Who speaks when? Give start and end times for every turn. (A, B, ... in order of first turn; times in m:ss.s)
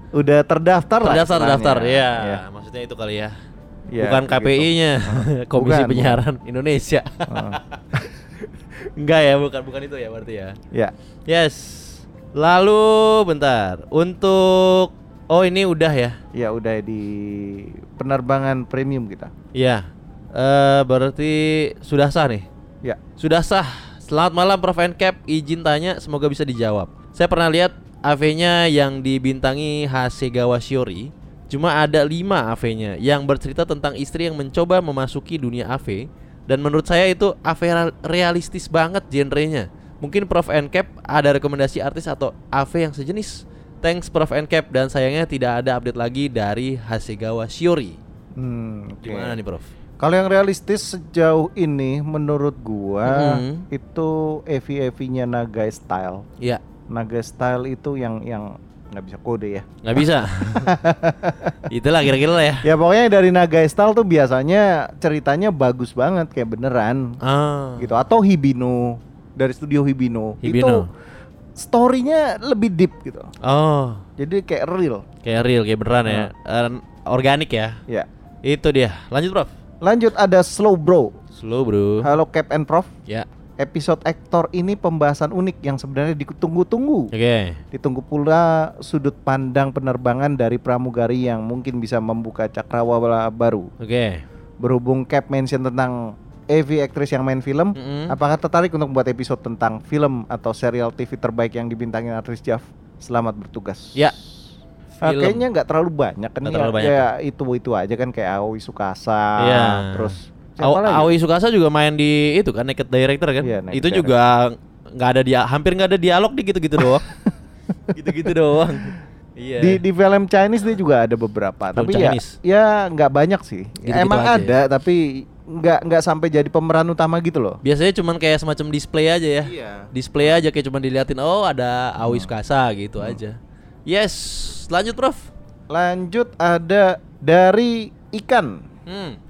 0:00.1-0:02.4 A
0:01.0-0:03.4 B
0:03.9-0:06.2 A
0:04.0-0:10.6 B
0:07.3-0:07.6 A
0:11.3-0:16.2 B
0:16.3-0:19.3 A
0:19.5-0:22.5 B
0:23.2-0:48.0 B
0:48.4-0:49.4 A
0:49.0-0:49.7 B
0:50.0-0:56.2 A
0:53.0-0:53.7 B
0:56.9-1:01.7 A
0:59.8-1:00.7 B
1:01.7-1:02.7 B
1:02.6-1:07.2 A
1:07.2-1:08.0 B
1:07.8-1:10.9 A
1:10.4-1:10.9 B
1:11.6-1:13.3 A
1:13.4-1:14.1 B
1:14.2-1:15.1 A
1:15.2-1:17.8 B
1:18.4-1:19.5 B
1:19.8-1:21.1 A
1:21.4-1:22.1 B
1:22.0-1:22.9 A
1:23.6-1:27.1 A
1:27.1-1:27.6 B
1:27.7-1:33.7 A
1:33.8-1:34.2 B
1:34.6-1:44.1 A
1:37.8-1:38.2 B
1:45.0-1:51.1 A
1:45.0-1:45.5 B
1:46.4-1:47.1 B
1:49.4-1:57.1 B
1:53.4-1:54.1 A
1:56.8-1:57.2 A
1:57.9-1:59.8 B
1:59.6-2:07.6 A
2:01.8-2:02.4 B
2:03.8-2:04.6 B
2:07.6-2:15.3 B
2:09.4-2:10.4 A
2:12.0-2:12.3 A
2:15.7-2:18.6 A
2:18.9-2:19.2 B